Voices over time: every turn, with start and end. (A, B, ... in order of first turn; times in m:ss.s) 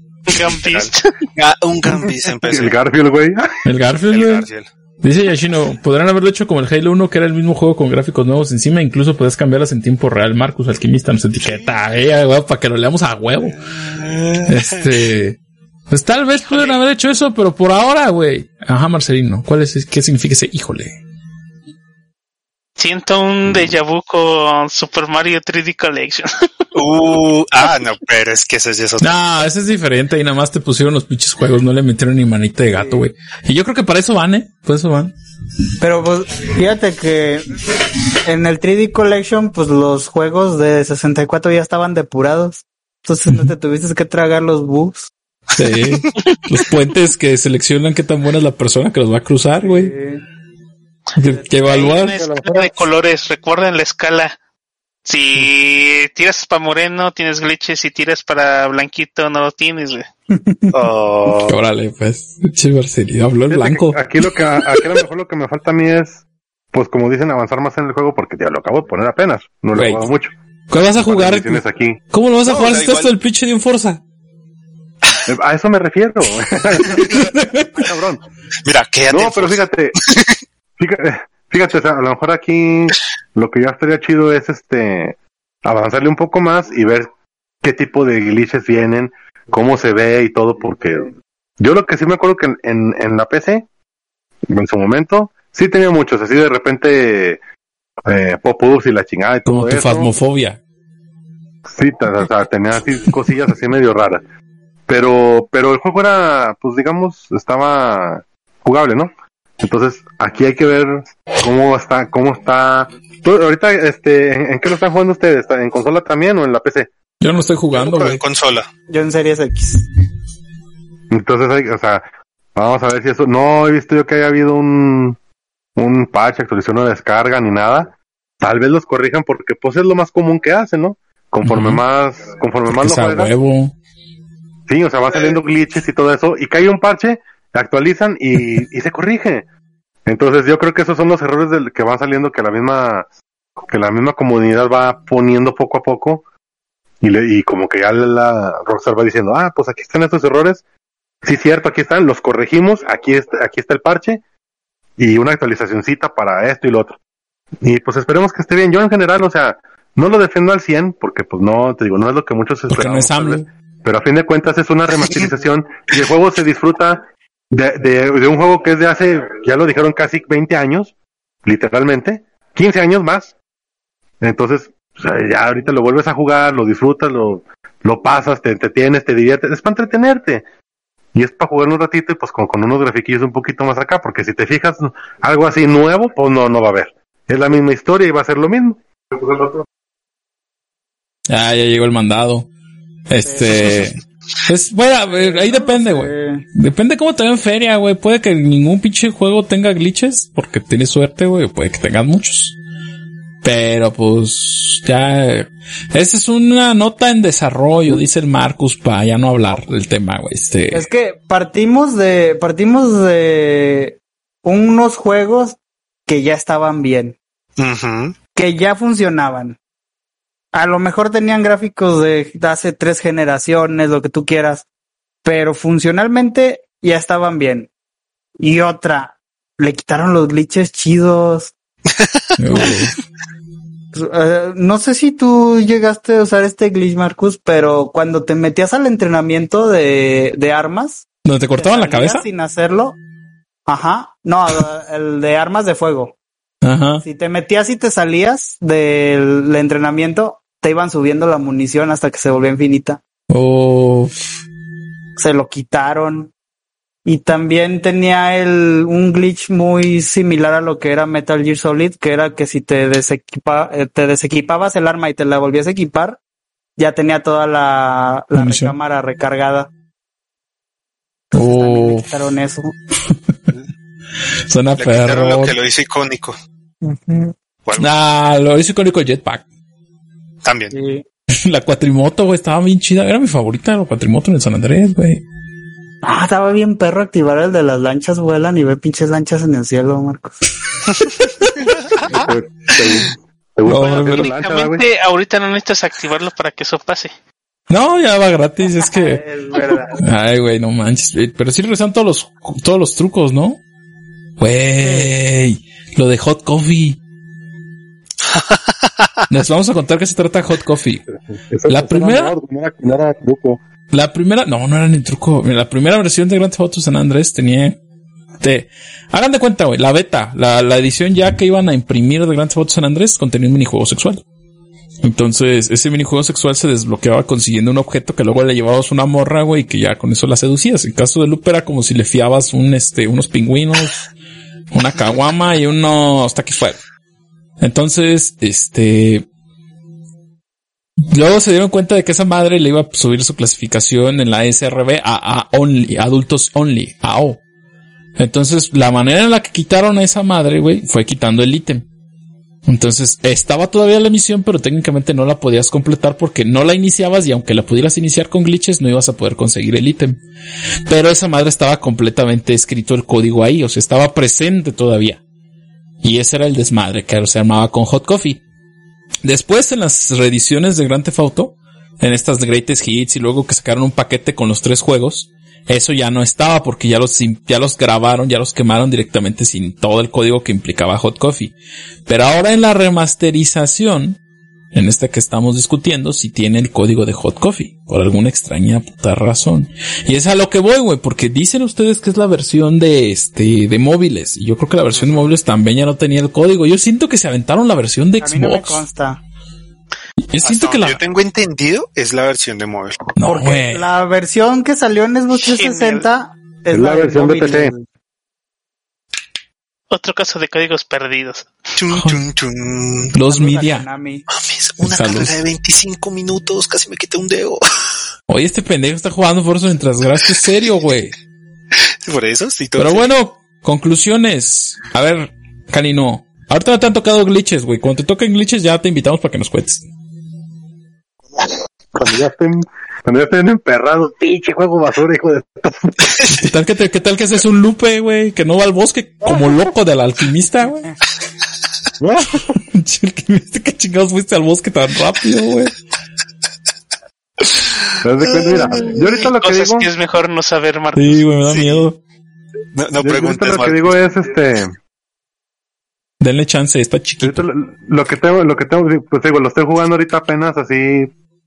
0:00.3-0:01.2 A
0:00.3-0:02.8 B
0:02.5-0:03.4 C
0:03.6-0:04.5 D
0:04.1-0:04.7 B
0:05.0-0:13.6 D
0:11.4-0:11.8 B
0:13.4-0:15.1 B
0:14.5-0:15.4 D
0:15.9-0:21.0 D
0:16.5-0:16.7 B
0:22.8-0:26.3 A
0:26.7-0:29.2 B
0:29.0-0:35.1 D
0:32.7-0:33.0 E
0:35.8-0:37.5 E
0:38.2-0:45.1 E
0:45.5-0:46.1 B
0:45.6-0:49.9 D
0:49.6-0:50.2 E
0:51.2-0:54.4 A
0:51.2-0:52.2 D
0:51.9-0:52.7 C
0:55.0-1:00.1 A
1:00.4-1:00.7 E
1:00.7-1:01.6 B
1:01.4-1:04.0 D
1:03.5-1:10.3 C
1:09.8-1:10.0 D
1:10.7-1:14.0 D
1:10.9-1:12.0 C
1:12.4-1:13.1 B
1:15.2-1:18.2 C
1:17.0-1:17.9 D
1:18.6-1:20.4 B
1:19.1-1:20.0 C
1:20.8-1:27.1 C
1:27.6-1:33.7 C
1:34.5-1:37.4 C
1:38.1-1:40.1 C
1:39.4-1:40.6 D
1:41.7-1:44.2 C
1:44.9-1:56.9 C
1:57.2-1:58.2 D
1:57.7-1:58.7 B
1:58.9-1:59.8 E
2:01.1-2:05.2 C
2:05.8-2:13.3 C
2:11.4-2:11.8 D
2:12.7-2:13.7 D
2:14.7-2:19.4 C
2:20.0-2:23.1 C
2:23.7-2:26.2 C
2:27.0-2:30.6 C
2:31.2-2:34.2 C
2:35.0-2:37.0 C
2:37.6-2:50.9 C
2:42.7-2:43.4 D
2:51.4-2:53.3 C
2:54.2-3:00.4 C
3:01.1-3:09.6 C
3:11.3-3:12.5 D
3:13.1-3:22.6 D
3:13.2-3:13.8 E
3:15.0-3:16.4 E
3:23.4-3:30.8 D
3:30.7-3:37.2 E
3:37.6-3:38.2 B
3:38.3-3:39.6 E
3:40.5-3:44.6 E
3:45.2-3:47.7 E
3:48.4-3:51.5 E
3:51.9-3:52.9 B
3:52.4-3:53.0 D
3:53.9-4:01.0 E
4:01.2-4:02.2 D
4:01.6-4:03.0 E
4:03.7-4:06.2 E
4:06.6-4:07.0 D
4:07.0-4:13.0 E
4:13.3-4:14.4 D
4:15.2-4:16.3 E
4:17.0-4:26.2 E
4:26.8-4:29.7 E
4:28.3-4:28.7 D
4:31.3-4:32.7 E
4:31.3-4:32.1 D
4:33.1-4:33.5 D
4:34.5-4:35.5 D
4:34.8-4:36.4 B
4:36.8-4:37.3 E
4:37.6-4:37.9 B
4:37.8-4:39.4 D
4:40.4-4:40.7 B
4:40.7-4:41.0 E
4:41.4-4:45.2 D
4:46.0-4:50.4 E
4:50.8-4:52.2 B
4:52.1-4:54.8 C
4:53.6-4:54.3 D
4:53.7-4:57.1 A
4:57.7-4:59.2 D
4:58.7-5:00.0 E
5:00.0-5:03.6 D
5:04.4-5:07.0 D
5:04.8-5:05.1 E
5:08.3-5:09.2 B
5:09.3-5:11.0 D
5:11.1-5:13.6 C
5:11.7-5:12.3 D
5:13.9-5:17.8 D
5:18.4-5:24.2 D
5:25.0-5:34.0 D
5:34.7-5:36.8 D
5:37.6-5:39.2 D
5:41.1-5:47.4 D
5:48.2-5:51.8 D
5:52.6-6:00.2 D
6:00.9-6:05.2 D
6:06.0-6:08.4 D
6:09.2-6:21.5 D
6:22.1-6:24.2 D
6:24.7-6:38.8 D
6:34.9-6:35.3 B
6:38.2-6:39.2 E
6:40.3-6:41.0 D
6:40.4-6:43.0 B
6:43.2-6:43.9 D
6:43.2-6:47.8 E
6:45.3-6:46.0 A
6:46.7-6:47.7 C
6:49.9-6:51.5 A
6:51.8-6:53.1 B
6:51.9-6:52.2 D
6:53.1-6:53.8 D
6:53.3-6:54.2 E
6:54.3-6:57.6 B
6:54.8-6:55.4 D
6:58.3-7:01.1 D
7:02.0-7:03.1 B
7:02.8-7:09.8 D
7:11.4-7:16.1 C
7:16.1-7:16.4 B
7:16.3-7:20.9 D
7:22.0-7:22.5 C
7:22.5-7:25.7 D
7:28.0-7:29.9 C
7:28.5-7:28.9 B
7:29.3-7:31.2 A
7:30.9-7:32.0 D
7:31.4-7:31.9 B
7:32.7-7:34.0 B
7:33.0-7:34.8 C
7:36.2-7:37.4 D
7:37.2-7:41.1 C